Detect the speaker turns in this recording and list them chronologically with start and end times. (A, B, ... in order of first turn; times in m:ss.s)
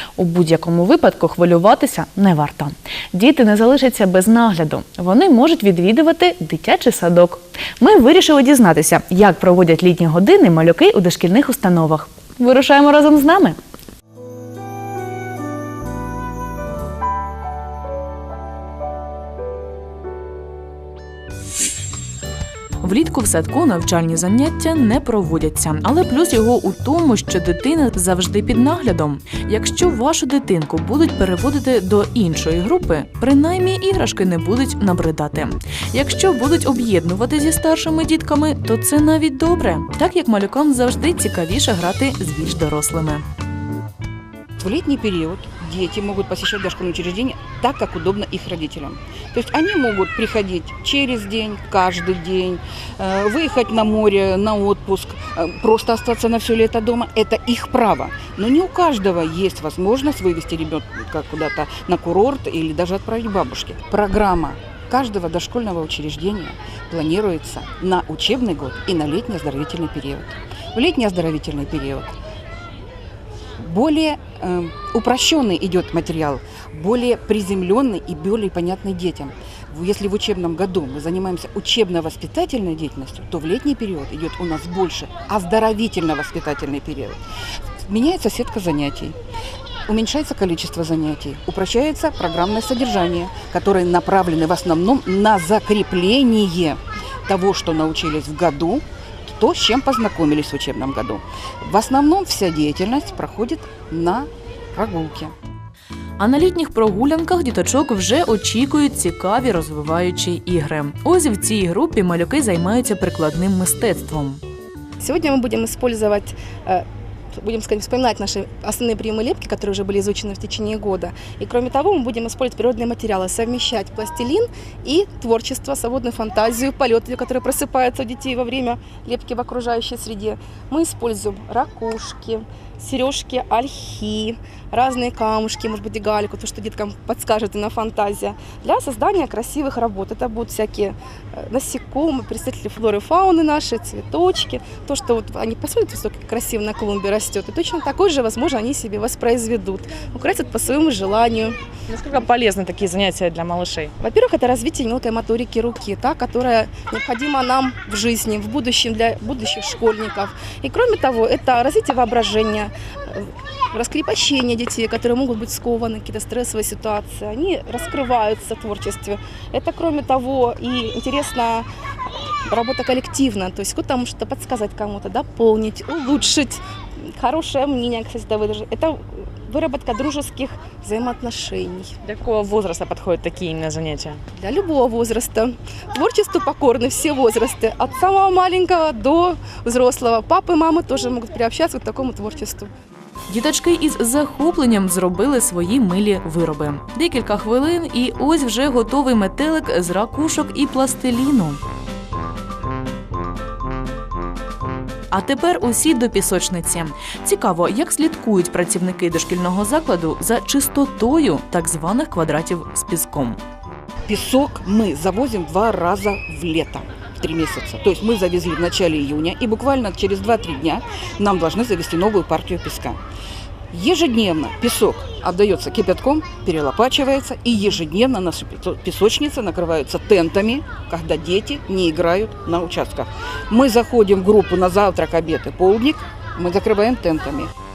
0:00.2-0:13.6 A
0:22.8-0:43.2 B
0:44.6-1:12.2 C
1:13.6-1:27.2 C
1:27.9-1:29.2 C
1:29.9-1:45.3 C
1:46.2-1:54.4 B
1:55.0-2:31.6 D
2:31.9-2:34.0 E
2:34.0-2:51.7 D
2:52.5-3:02.0 D
3:02.0-3:04.2 E
3:04.4-3:12.7 D
3:13.3-3:21.6 B
3:25.1-3:33.4 B
3:34.1-3:43.0 C
3:43.7-3:57.5 C